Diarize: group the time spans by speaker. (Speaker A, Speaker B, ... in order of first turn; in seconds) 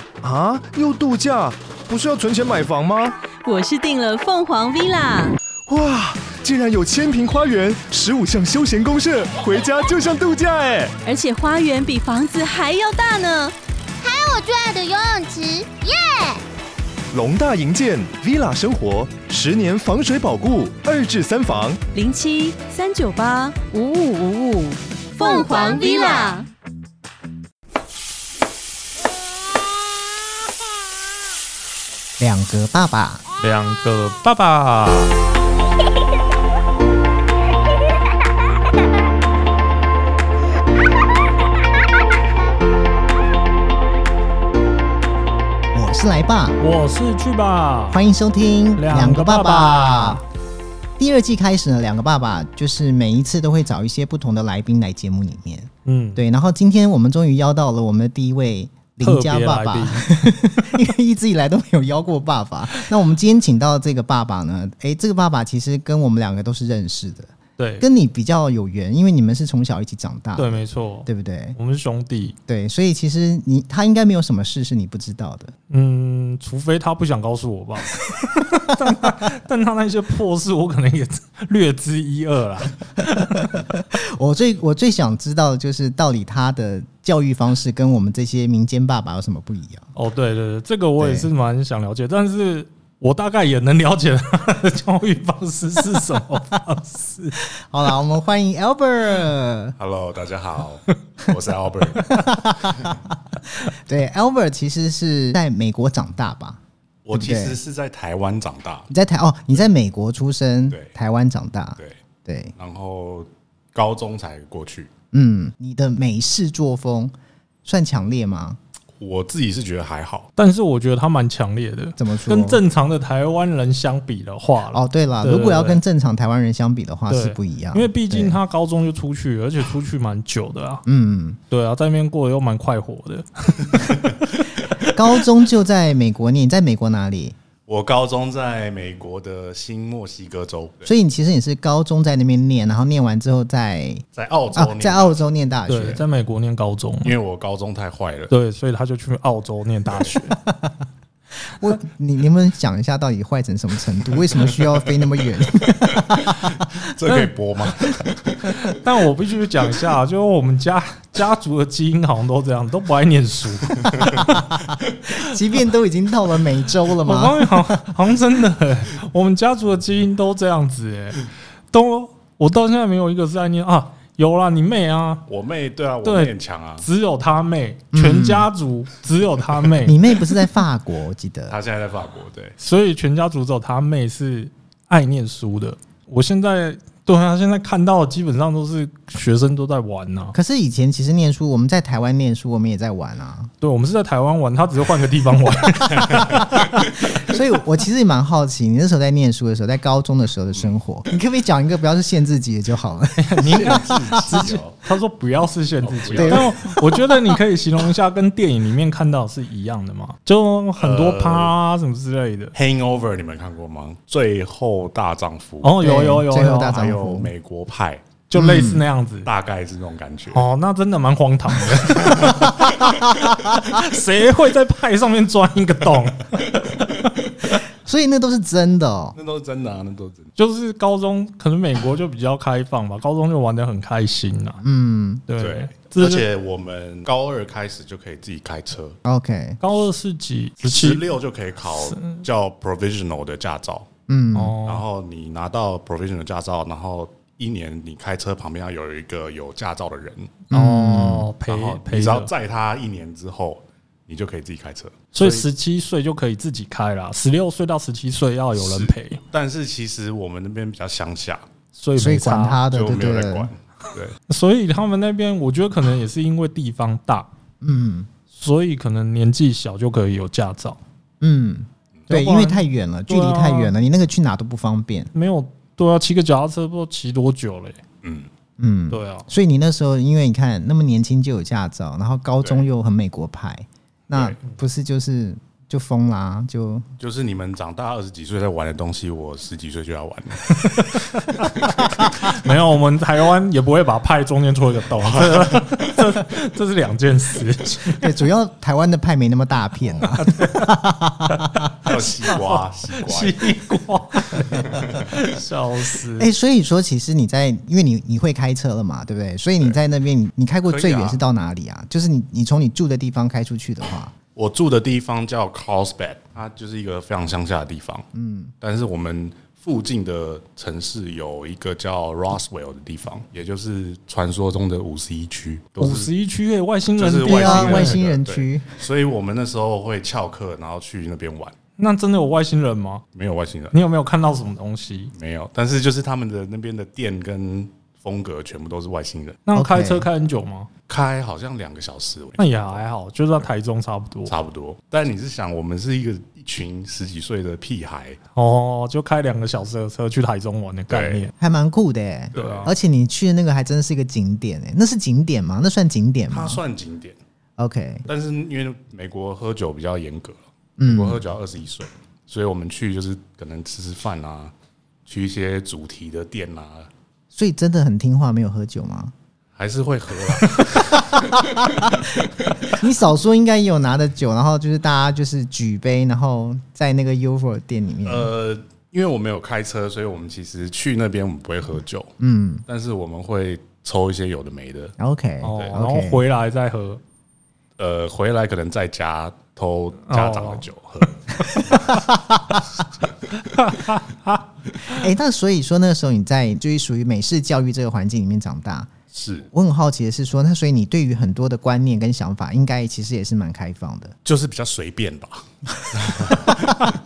Speaker A: 0.2-3.1, 5.7-10.9, 17.1-21.8
Speaker B: 3.4-5.3, 11.0-13.5, 21.9-26.5
Speaker C: 14.0-16.4, 25.2-26.4
Speaker D: 32.2-33.2, 45.7-46.6, 47.9-50.2, 51.0-71.6, 72.5-75.5, 83.3-89.9, 91.0-91.3, 97.5-99.8, 102.0-106.6, 107.1-107.6, 108.9-112.5, 115.1-118.6, 122.0-122.6, 124.7-128.3, 130.8-131.4, 134.8-137.3, 140.8-146.0, 150.3-150.7, 151.6-156.7, 165.1-167.8, 177.9-178.5, 179.8-181.6, 190.3-193.5, 197.1-204.4, 206.2-206.5, 215.8-217.3, 218.3-218.8, 222.8-223.6, 227.6-229.2, 234.6-235.2, 239.1-239.6, 244.1-244.6, 250.5-251.3, 261.9-263.5, 267.6-268.1, 271.2-275.1, 278.6-286.9, 298.0-301.7, 306.2-314.1, 318.1-318.5, 327.2-328.8, 339.5-340.1, 351.4-356.6, 357.6-358.1, 360.8-361.2, 367.3-369.1, 370.8-372.0, 372.7-378.3, 382.2-382.6, 385.0-386.2, 391.9-392.6, 394.9-398.9, 399.5-404.1
Speaker E: 33.4-35.2, 46.6-48.0, 48.7-50.2, 55.9-56.2, 59.0-60.3, 67.6-67.9, 70.3-72.4, 75.7-83.5, 90.0-97.4, 120.3-125.8, 127.1-130.8, 131.5-134.1, 145.7-147.1, 148.3-150.4, 158.4-164.5, 167.0-175.2, 176.0-180.1, 182.6-190.3, 193.6-196.7, 203.2-212.5, 215.6-216.8, 218.3-219.3, 220.3-227.0, 230.3-234.6, 235.3-236.2, 239.6-241.0, 241.8-242.2, 244.3-244.8, 250.5-252.3, 255.1-259.2, 261.7-262.6, 264.3-267.3, 268.3-270.8, 272.1-273.7, 275.1-277.8, 278.9-279.3, 290.5-298.0, 300.0-300.7, 301.3-306.3, 325.8-328.0, 331.8-333.0, 333.7-335.1, 339.4-340.7, 342.4-344.3, 348.4-351.3, 352.3-352.7, 385.4-387.0, 390.1-390.6, 393.4-395.0
Speaker F: 99.8-103.0, 107.0-108.9, 112.6-114.9, 119.0-120.3, 137.7-140.9, 144.1-145.2, 147.0-148.3, 156.3-158.4, 175.3-176.9, 181.5-182.6, 203.4-204.7, 205.8-206.7, 210.8-211.5, 212.5-215.8, 216.6-218.1, 219.2-220.4, 229.1-230.3, 235.4-239.0, 240.6-243.9, 244.6-250.4, 251.5-255.5, 258.6-261.4, 262.7-264.2, 278.0-278.3, 284.1-284.4, 287.0-291.7, 295.0-296.0, 301.8-303.5, 304.6-305.1, 310.6-311.2, 314.3-318.1, 318.6-326.1, 327.0-331.6, 333.1-333.7, 335.1-339.4, 340.9-342.8, 344.3-348.2, 350.9-351.3, 352.3-352.7, 356.3-357.2, 358.1-364.5, 365.1-366.9, 369.6-371.2, 378.0-382.1, 382.7-384.9, 387.8-391.9, 399.1-399.5, 404.2-406.5